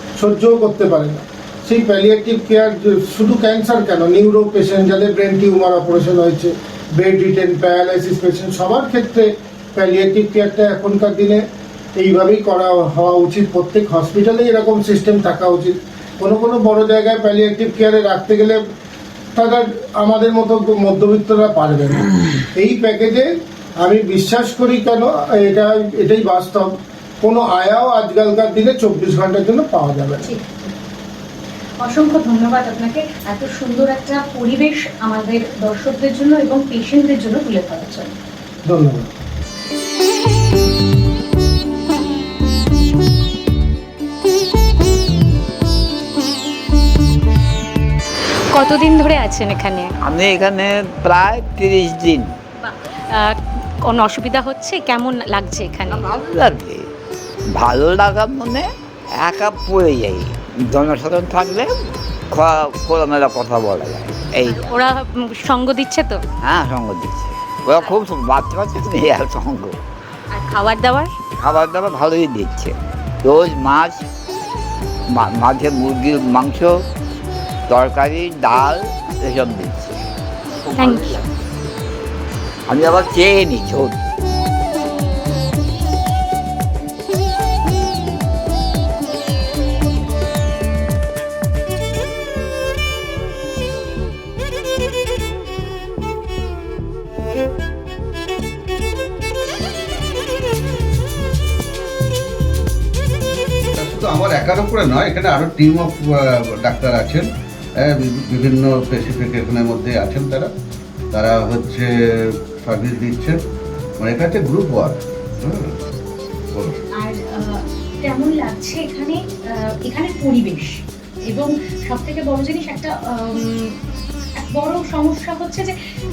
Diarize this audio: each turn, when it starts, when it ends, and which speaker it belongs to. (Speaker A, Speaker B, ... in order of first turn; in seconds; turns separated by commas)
Speaker A: 0.2-11.4, Speaker A: 11.9-18.6, Speaker A: 19.3-23.3, Speaker A: 23.8-26.7, Speaker A: 27.2-30.3, Speaker B: 30.2-30.7, Speaker B: 31.8-38.1, Speaker A: 38.7-39.1, Speaker B: 48.5-49.9, Speaker C: 50.0-52.3, Speaker B: 52.6-56.1, Speaker C: 55.9-56.9, Speaker C: 57.5-64.6, Speaker B: 64.5-66.2, Speaker C: 66.4-69.8, Speaker B: 70.3-71.1, Speaker C: 71.4-74.0, Speaker C: 75.1-76.8, Speaker C: 77.7-80.0, Speaker C: 80.6-81.2, Speaker B: 80.8-81.2, Speaker C: 82.7-84.0, Speaker D: 103.8-107.3, Speaker D: 107.8-110.5, Speaker D: 111.1-113.4, Speaker D: 114.0-115.8, Speaker D: 116.5-116.8, Speaker B: 116.9-120.7, Speaker B: 121.3-123.8, Speaker B: 124.4-125.7